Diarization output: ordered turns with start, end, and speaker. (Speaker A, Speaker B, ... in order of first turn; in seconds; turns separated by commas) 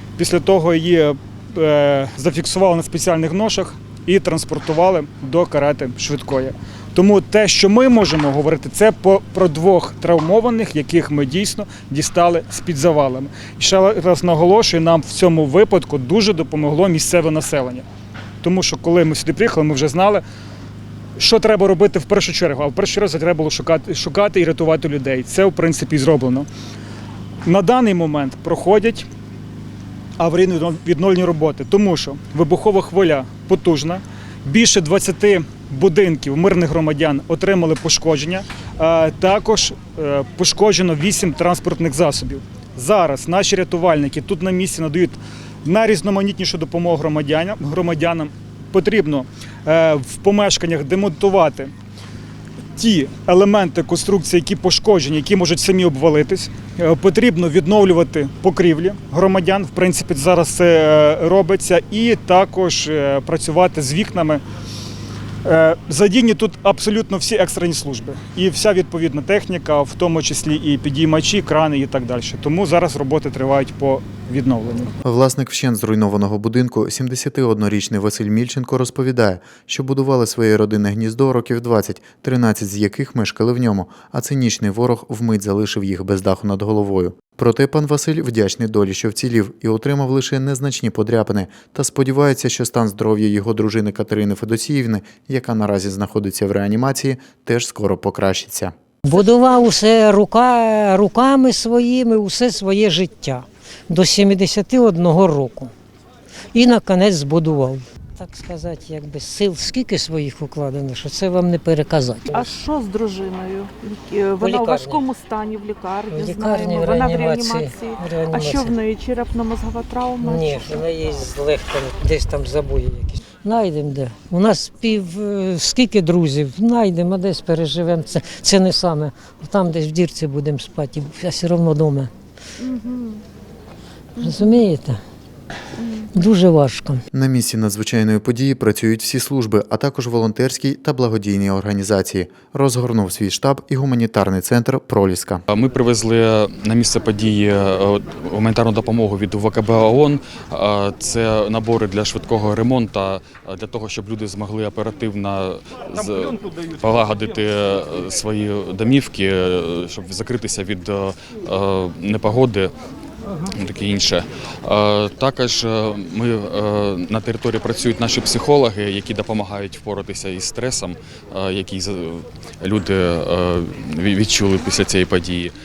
Speaker A: 0.2-17.9, Speaker A: 18.4-20.2, Speaker A: 21.2-26.5, Speaker A: 27.5-29.1, Speaker A: 30.2-51.7, Speaker A: 52.8-64.4, Speaker A: 65.5-74.9, Speaker B: 75.0-98.7, Speaker C: 99.0-105.7, Speaker C: 106.5-112.5, Speaker D: 112.3-120.8, Speaker C: 114.4-115.0, Speaker C: 116.1-118.8, Speaker C: 120.2-132.1, Speaker D: 132.7-133.2, Speaker C: 134.2-135.0, Speaker C: 136.1-137.0, Speaker B: 137.1-145.4, Speaker E: 145.5-162.7, Speaker E: 163.5-175.5